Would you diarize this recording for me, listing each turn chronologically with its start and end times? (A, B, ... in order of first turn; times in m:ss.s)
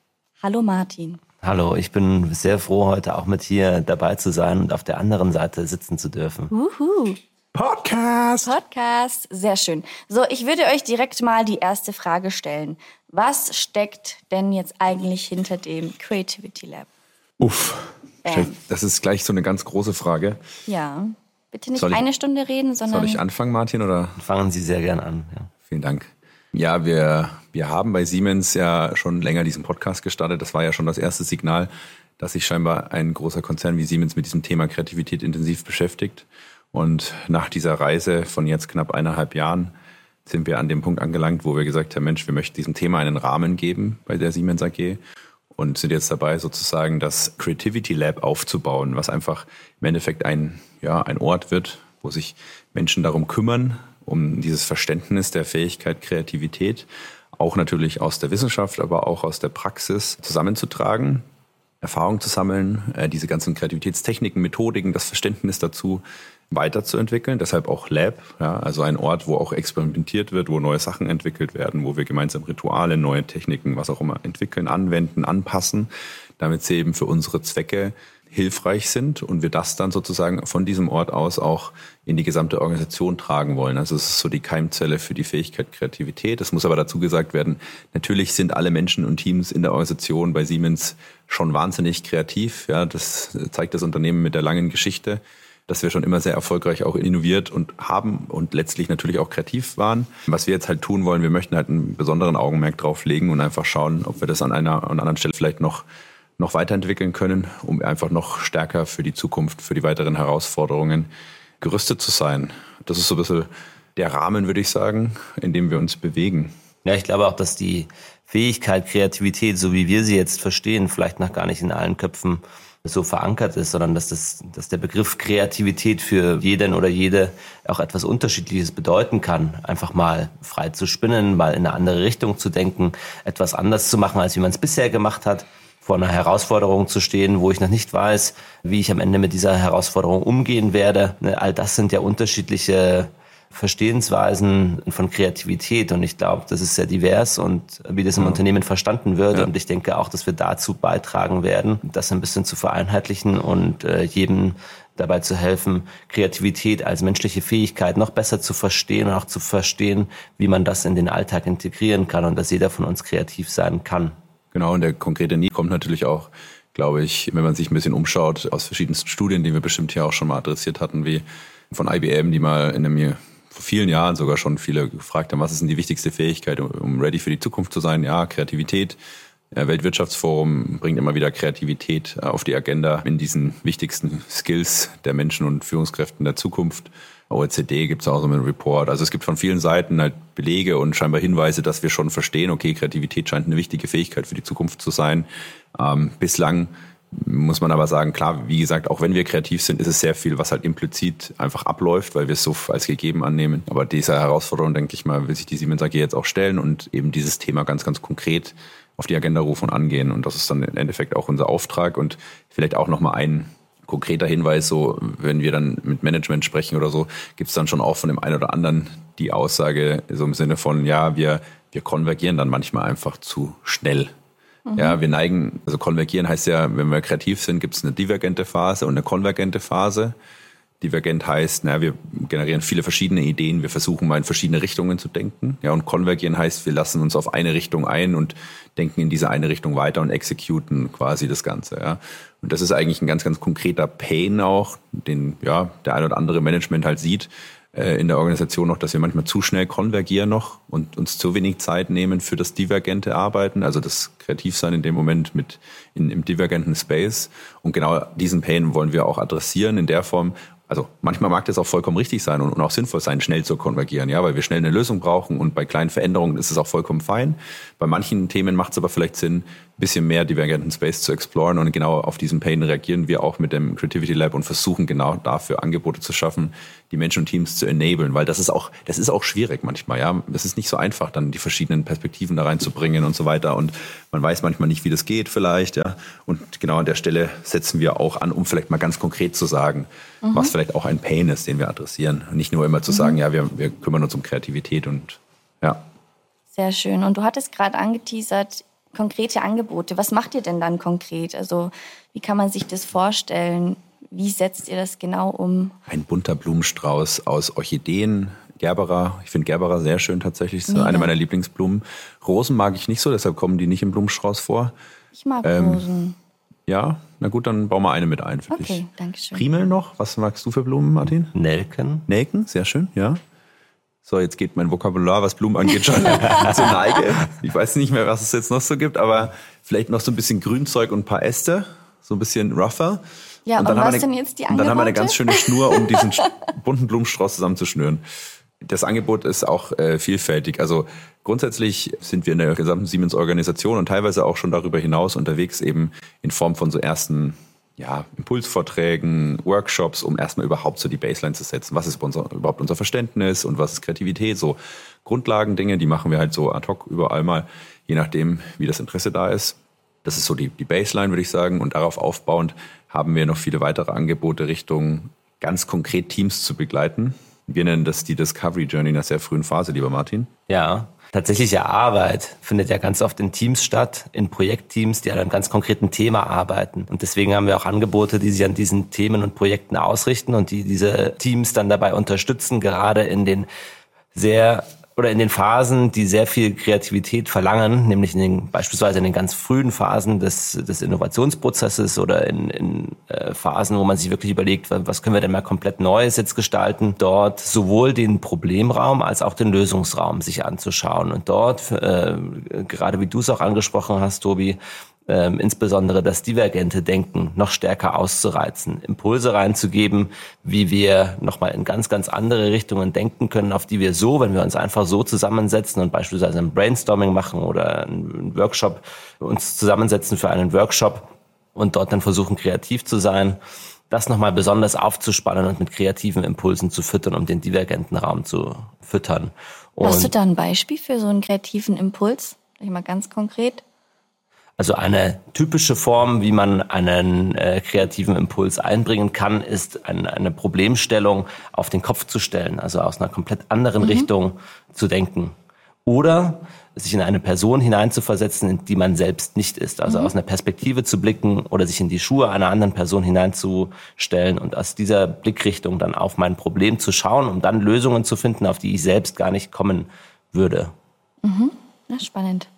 0:00.4-0:01.2 A
0:01.4-0:06.5 B
0:06.5-0:07.2 A
0:07.5-0:08.5 C
0:08.4-0:16.9 A
0:17.4-0:20.4 C
0:18.2-0:18.6 A
0:20.7-0:23.2 A
0:21.7-0:22.0 C
0:22.9-0:24.2 C
0:24.2-0:25.5 B
0:25.7-0:39.7 C
0:40.2-0:45.0 C
0:45.6-1:01.2 C
1:01.8-1:45.8 C
1:46.4-1:51.1 C
1:51.6-1:56.5 C
1:56.8-2:44.1 B
2:44.5-2:59.0 C
2:59.5-3:44.1 C
3:44.6-3:45.0 A
3:44.8-3:50.1 C
3:50.8-4:55.8 C
4:50.2-4:50.5 A
4:52.9-4:53.2 A
4:56.5-5:05.7 A
5:05.9-5:14.7 C
5:10.7-5:11.1 A
5:15.1-5:16.2 A
5:15.4-5:15.8 C
5:16.7-5:21.3 C
5:18.5-5:19.4 A
5:21.3-5:22.0 B
5:22.1-5:23.2 C
5:24.0-5:33.0 C
5:33.5-5:36.1 A
5:33.6-5:38.0 C
5:38.6-6:10.3 C
6:10.5-6:23.5 B
6:24.1-7:03.4 B
7:03.9-7:10.1 B
7:09.8-7:13.6 A
7:14.6-7:25.3 B
7:23.8-7:24.1 A
7:25.8-7:40.7 B
7:29.8-7:30.1 A
7:41.2-7:42.5 A